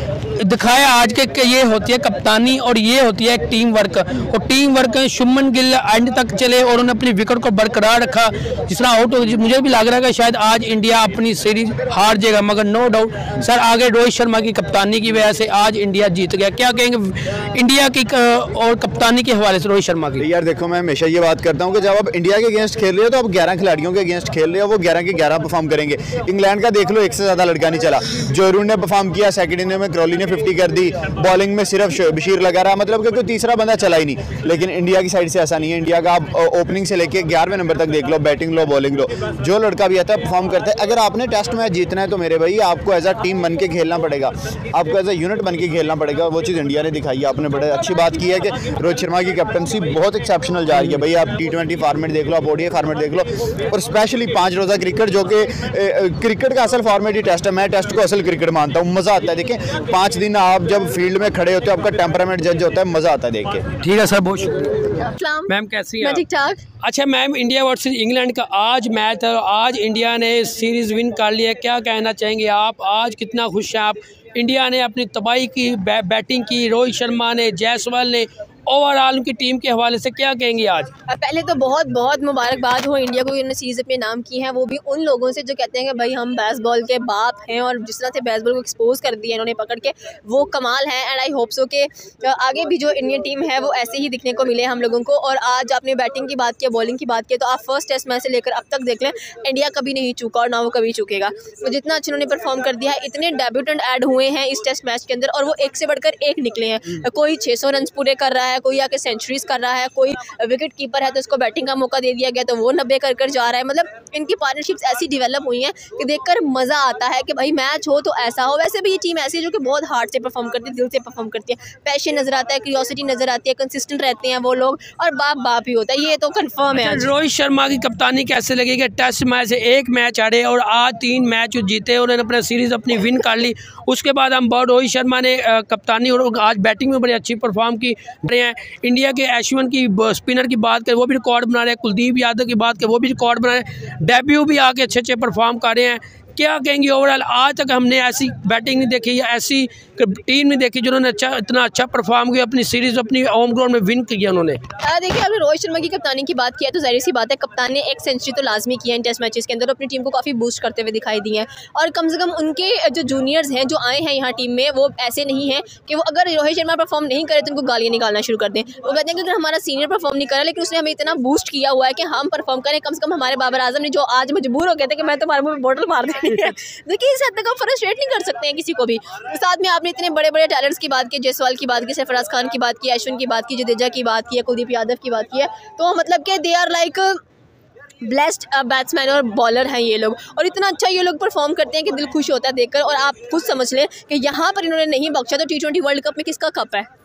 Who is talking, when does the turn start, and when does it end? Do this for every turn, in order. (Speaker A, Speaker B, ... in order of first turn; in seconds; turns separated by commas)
Speaker A: 0.4-20.2, Speaker B: 20.2-63.7, Speaker A: 63.8-66.2, Speaker C: 65.1-65.5, Speaker C: 66.0-66.6, Speaker A: 66.8-80.9, Speaker C: 81.1-127.1, Speaker A: 126.7-154.6, Speaker C: 154.8-187.2, Speaker C: 188.1-196.9